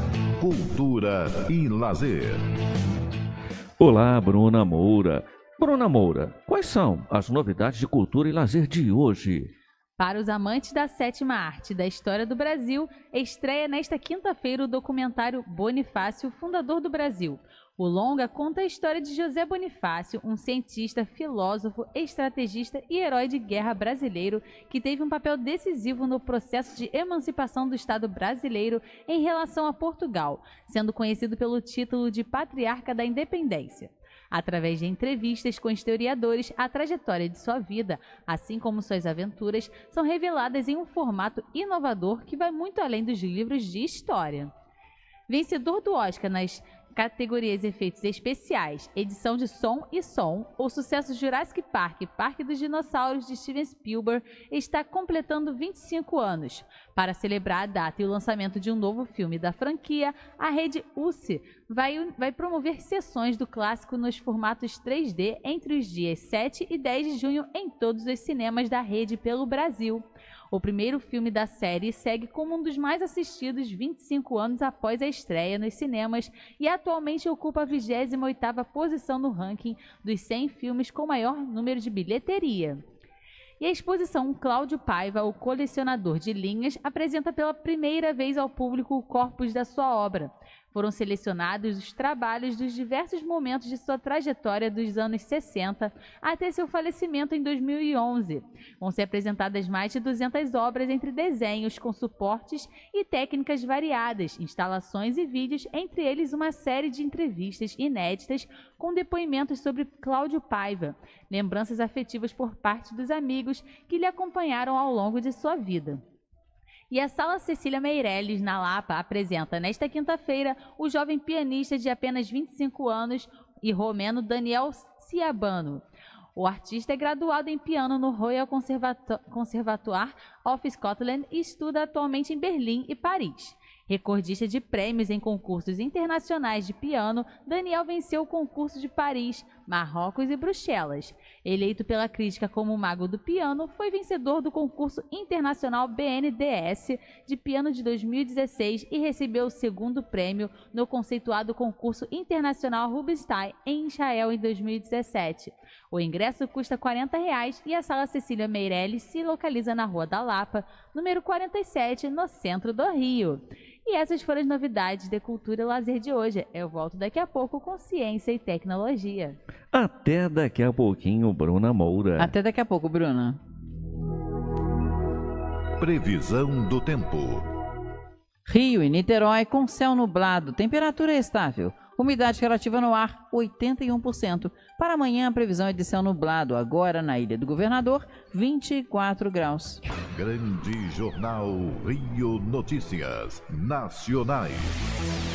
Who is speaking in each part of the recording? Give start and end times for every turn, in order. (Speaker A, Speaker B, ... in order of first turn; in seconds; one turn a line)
Speaker A: 0.4-2.5
Speaker B: 3.8-9.5
Speaker C: 10.0-44.5
Speaker C: 45.3-82.8
Speaker C: 83.6-116.0
Speaker C: 116.9-125.8
Speaker C: 126.4-169.4
Speaker B: 169.7-172.3
Speaker D: 172.2-173.4
Speaker A: 175.8-177.5
Speaker D: 178.5-189.8
Speaker A: 190.1-194.8